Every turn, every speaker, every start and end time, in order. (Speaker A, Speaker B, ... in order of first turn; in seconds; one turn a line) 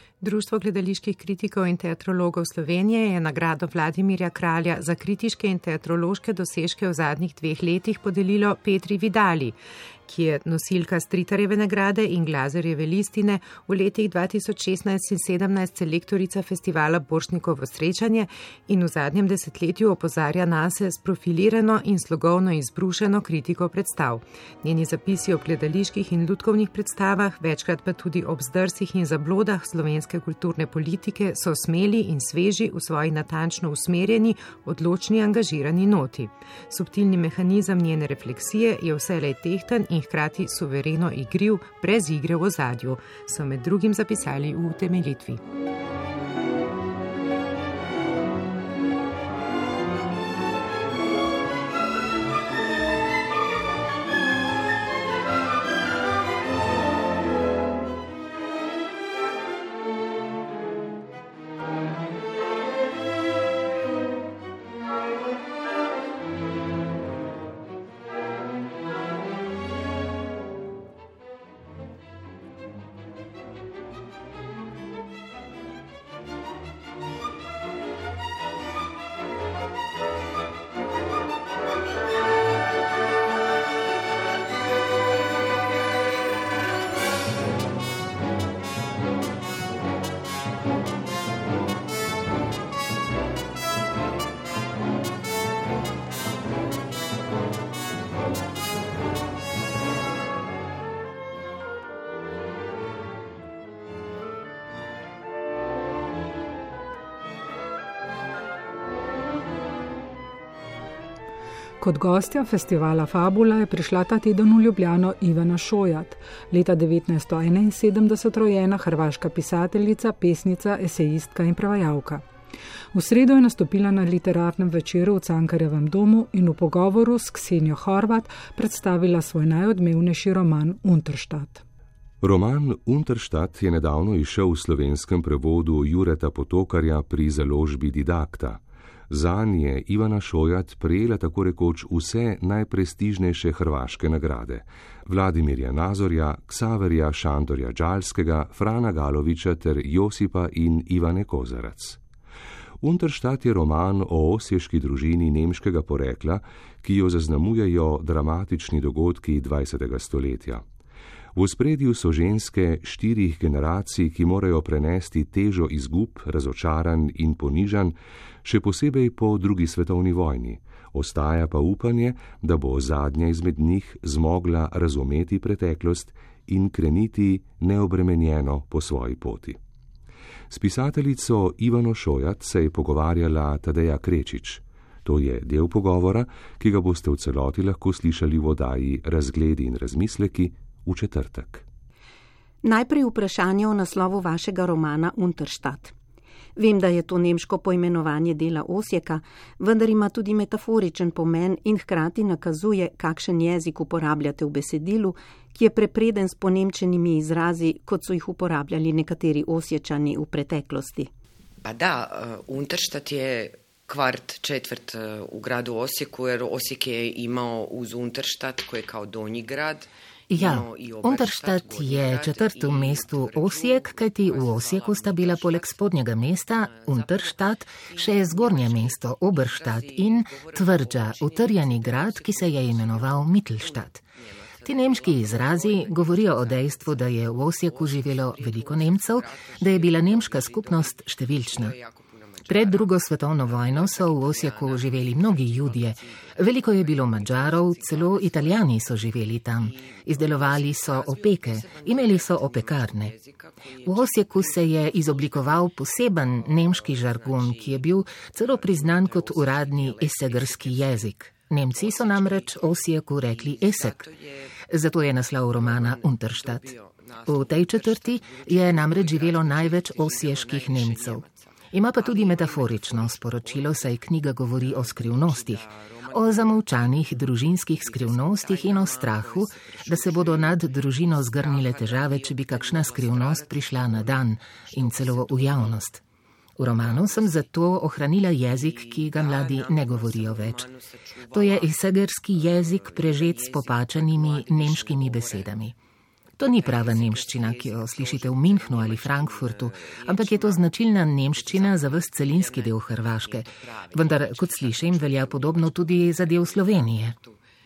Speaker A: 0.2-45.4
Speaker B: 111.8-122.3
Speaker B: 122.9-131.6
Speaker C: 132.2-152.0
Speaker C: 152.8-160.6
Speaker C: 161.3-179.6
Speaker C: 180.5-191.6
Speaker D: 192.6-195.9
Speaker D: 196.6-211.1
Speaker E: 211.6-248.8
Speaker F: 220.3-234.0
Speaker F: 234.6-241.7
Speaker F: 242.4-253.1
Speaker E: 249.5-261.1
Speaker F: 253.8-264.0
Speaker E: 261.7-264.5
Speaker F: 264.7-266.7
Speaker E: 265.5-274.0
Speaker F: 267.2-286.0
Speaker E: 274.6-285.9
Speaker F: 286.6-290.7
Speaker E: 286.7-287.5
Speaker E: 288.4-295.6
Speaker F: 291.3-295.7
Speaker F: 296.4-307.1
Speaker E: 296.5-307.4